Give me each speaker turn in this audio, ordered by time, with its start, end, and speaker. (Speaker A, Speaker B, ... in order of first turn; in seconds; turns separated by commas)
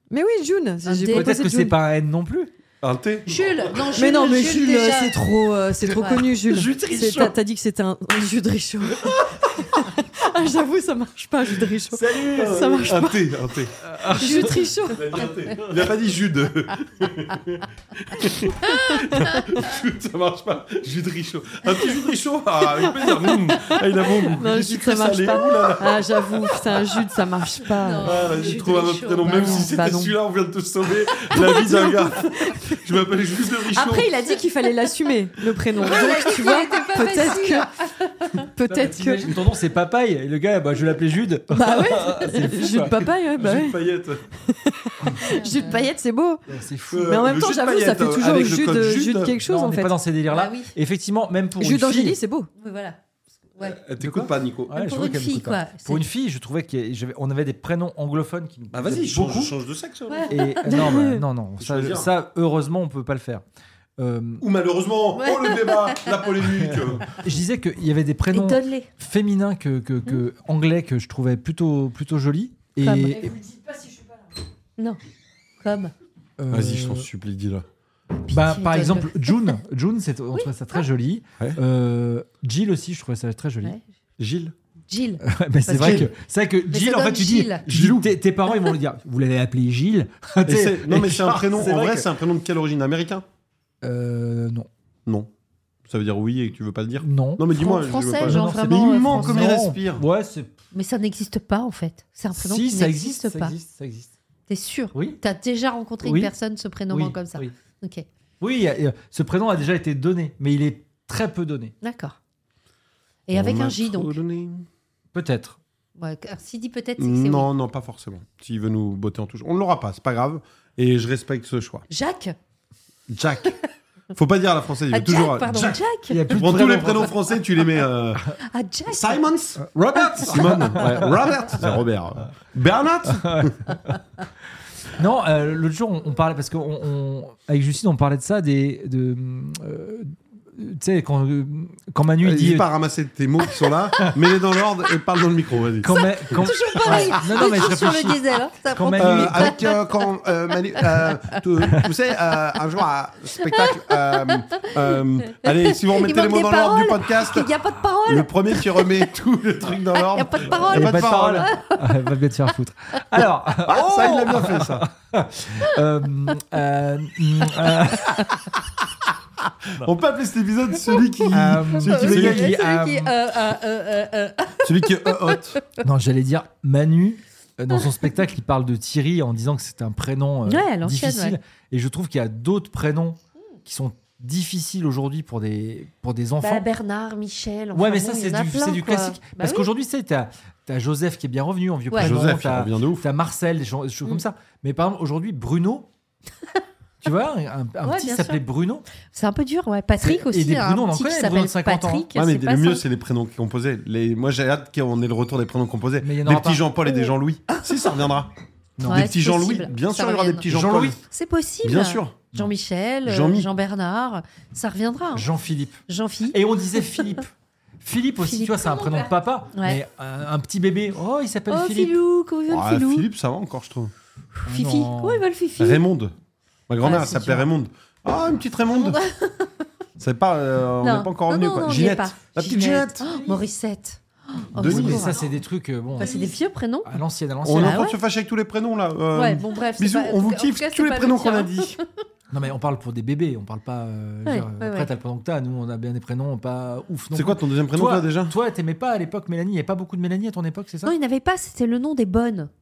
Speaker A: 0.1-1.7, Speaker B: 0.8-1.3, Speaker C: 1.1-2.5, Speaker D: 2.8-4.2, Speaker B: 3.3-5.2, Speaker A: 3.9-13.2, Speaker B: 5.8-6.2, Speaker C: 6.4-7.3, Speaker C: 11.9-12.9, Speaker D: 12.2-13.8, Speaker C: 13.8-14.6, Speaker A: 14.1-15.2, Speaker D: 14.9-27.0, Speaker A: 18.7-19.3, Speaker A: 23.0-28.2, Speaker B: 27.8-29.7, Speaker D: 28.0-34.1, Speaker A: 29.2-30.1, Speaker A: 31.3-32.7, Speaker A: 33.7-37.7, Speaker B: 35.8-38.5, Speaker A: 38.5-39.3, Speaker C: 38.6-43.0, Speaker A: 41.5-43.8, Speaker D: 43.3-44.2, Speaker A: 44.4-46.4, Speaker B: 45.2-45.8, Speaker C: 46.5-47.2, Speaker D: 46.9-49.4, Speaker A: 47.1-49.9, Speaker C: 49.4-52.2, Speaker B: 50.3-50.7, Speaker A: 51.6-52.5, Speaker B: 52.6-53.0, Speaker B: 53.5-53.8, Speaker D: 53.6-54.7, Speaker C: 54.0-59.5, Speaker B: 54.7-56.0, Speaker D: 58.7-60.4, Speaker B: 60.1-60.4, Speaker C: 60.3-63.4, Speaker A: 60.7-61.1, Speaker D: 61.6-62.1, Speaker C: 64.0-64.4, Speaker D: 64.4-67.1, Speaker B: 65.2-66.1, Speaker C: 67.0-73.4, Speaker B: 68.3-68.9, Speaker B: 72.8-73.3, Speaker B: 75.6-75.9, Speaker C: 76.4-77.1, Speaker D: 76.5-77.6, Speaker B: 78.2-79.5, Speaker C: 78.3-83.8, Speaker B: 80.3-80.8, Speaker D: 84.2-84.5, Speaker B: 84.9-86.1, Speaker C: 85.2-92.1, Speaker D: 85.7-86.1, Speaker B: 86.7-87.6, Speaker D: 87.7-88.1, Speaker D: 90.4-93.2, Speaker C: 93.8-94.7, Speaker D: 95.8-100.0, Speaker C: 97.0-97.5, Speaker B: 97.5-99.5, Speaker C: 98.2-100.5, Speaker B: 100.7-103.5, Speaker C: 102.3-104.1, Speaker B: 104.5-108.0, Speaker C: 104.9-105.2, Speaker C: 106.0-106.3, Speaker C: 106.9-107.5, Speaker C: 108.4-111.7, Speaker B: 111.8-112.2, Speaker B: 113.3-114.2, Speaker D: 113.3-114.7, Speaker C: 115.1-115.6, Speaker B: 116.0-117.5, Speaker D: 117.0-121.8, Speaker B: 121.9-122.3, Speaker D: 123.1-123.6, Speaker D: 124.1-128.2, Speaker B: 124.9-126.2, Speaker C: 126.1-127.2, Speaker B: 128.5-129.2, Speaker D: 128.9-129.7, Speaker C: 129.6-131.7, Speaker B: 130.0-130.3, Speaker D: 130.2-133.6, Speaker C: 133.1-134.0, Speaker C: 134.9-142.7, Speaker D: 142.2-147.1, Speaker C: 145.8-149.6, Speaker B: 145.9-150.0, Speaker D: 149.0-157.5, Speaker B: 150.8-151.1, Speaker B: 153.7-159.1, Speaker D: 158.0-161.5, Speaker B: 159.9-162.1, Speaker C: 160.7-168.3, Speaker D: 163.7-164.9, Speaker D: 169.8-172.6, Speaker C: 171.3-173.1, Speaker B: 171.7-175.8, Speaker D: 174.6-175.6, Speaker C: 175.8-186.7, Speaker B: 180.4-181.4, Speaker B: 186.4-189.7, Speaker C: 187.7-195.9, Speaker D: 192.0-193.1, Speaker C: 197.0-198.8, Speaker B: 197.8-198.4, Speaker B: 199.1-202.8, Speaker C: 200.0-202.1, Speaker D: 202.1-208.3, Speaker C: 206.0-206.7, Speaker B: 206.9-207.6, Speaker C: 208.8-209.1, Speaker D: 208.8-211.0, Speaker B: 208.8-210.4, Speaker C: 210.5-211.0, Speaker B: 211.1-215.2, Speaker D: 211.6-212.2, Speaker D: 213.0-213.5, Speaker C: 215.1-215.8, Speaker B: 215.9-216.4, Speaker C: 216.3-222.0, Speaker B: 218.2-219.8, Speaker B: 221.5-223.1, Speaker D: 222.5-223.9, Speaker B: 224.4-225.8, Speaker C: 224.4-225.2, Speaker D: 225.6-226.1, Speaker D: 226.7-229.0, Speaker B: 226.8-227.5, Speaker B: 228.7-229.5, Speaker D: 230.0-233.0, Speaker B: 230.8-235.3, Speaker D: 234.5-235.2, Speaker C: 234.6-237.9, Speaker B: 236.0-237.0, Speaker D: 237.4-241.8, Speaker B: 237.5-238.0, Speaker B: 239.1-241.9, Speaker C: 242.3-250.9, Speaker B: 244.2-244.9, Speaker D: 247.1-248.3, Speaker B: 250.8-252.5